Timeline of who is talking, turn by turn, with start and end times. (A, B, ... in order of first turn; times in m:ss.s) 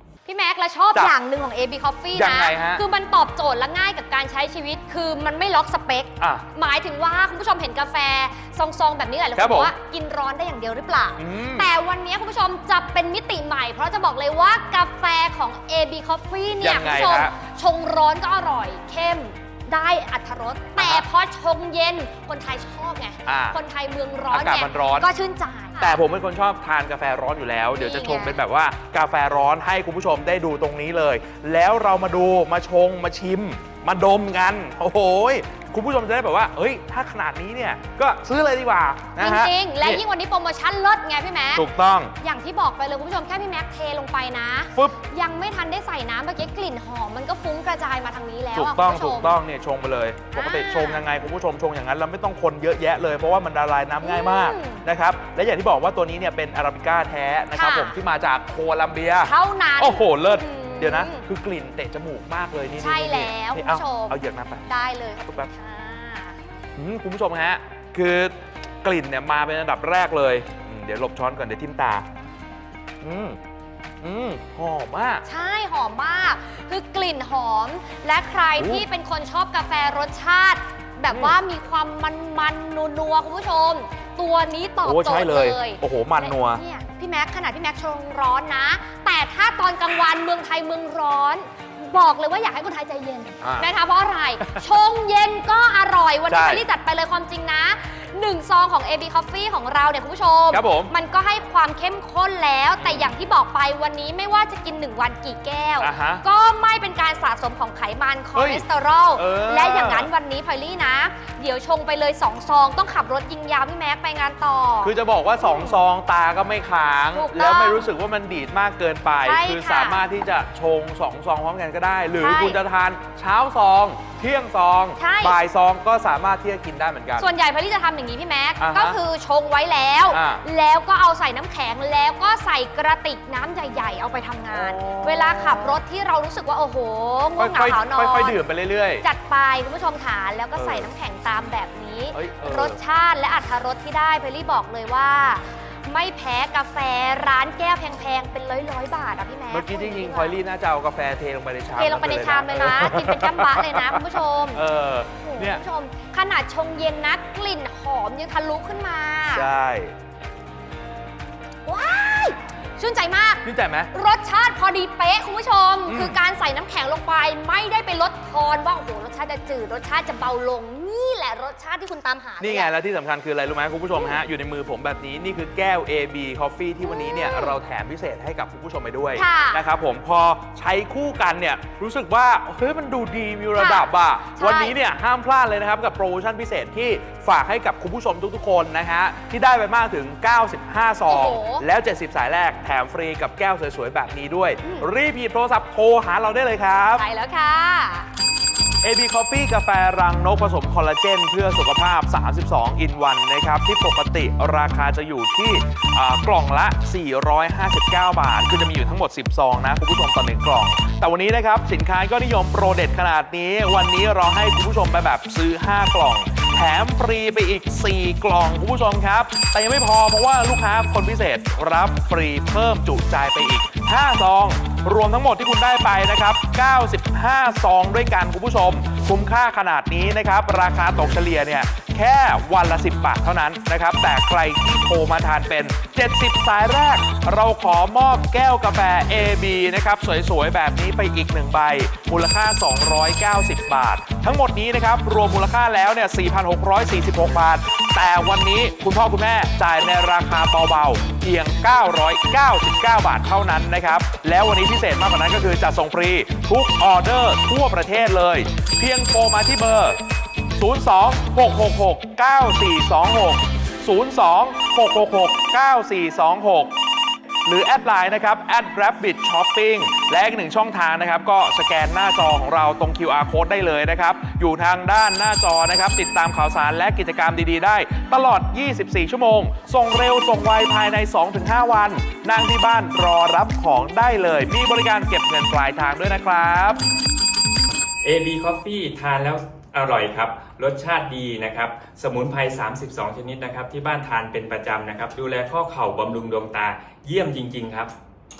0:00.2-0:26.0 A
0:02.1-0:02.8 B
0:06.2-0:06.4 B
0:09.3-0:09.7 B
0:11.2-0:11.7 B
0:16.6-0:17.3 B
0:20.8-0:21.1 B
0:23.2-0:23.6 B
0:24.3-0:25.1 B
0:25.8-0:40.0 B
0:27.7-0:28.4 A
0:39.2-0:41.6 A
0:41.5-0:42.1 B
0:42.2-0:49.4 A
0:48.5-1:04.6 B
0:50.3-0:51.0 A
0:54.0-0:54.8 A
0:57.5-0:58.0 A
0:59.2-1:01.2 A
1:02.8-1:06.4 A
1:05.2-1:05.5 B
1:06.8-1:12.0 B
1:13.0-1:13.4 B
1:14.0-1:15.2 B
1:15.2-1:55.8 A
1:18.6-1:18.8 B
1:21.1-1:21.4 B
1:24.8-1:26.6 B
1:33.4-1:33.7 B
1:36.3-1:36.6 B
1:40.5-1:40.9 B
1:42.8-1:43.2 B
1:45.8-1:46.2 B
1:48.3-1:50.1 B
1:54.8-2:07.3 B
1:57.1-1:57.9 A
1:59.2-2:00.0 A
2:02.2-2:02.6 A
2:05.0-2:05.4 A
2:07.2-2:18.4 A
2:08.6-2:09.0 B
2:10.1-2:10.4 B
2:14.5-2:15.8 B
2:17.4-2:19.0 B
2:19.0-2:30.4 A
2:20.6-2:20.9 B
2:22.1-2:22.8 B
2:29.5-2:35.6 B
2:31.8-2:39.5 A
2:39.3-2:39.9 B
2:41.6-2:52.7 A
2:43.4-2:43.9 B
2:45.8-2:46.2 B
2:52.4-3:17.0 B
2:56.8-2:57.6 A
2:59.2-2:59.6 A
3:03.5-3:04.7 A
3:11.1-3:11.6 A
3:14.6-3:14.9 A
3:17.0-3:18.1 A
3:18.8-4:20.0 B
4:20.6-4:26.7 B
4:27.4-4:46.8 B
4:48.0-4:57.9 C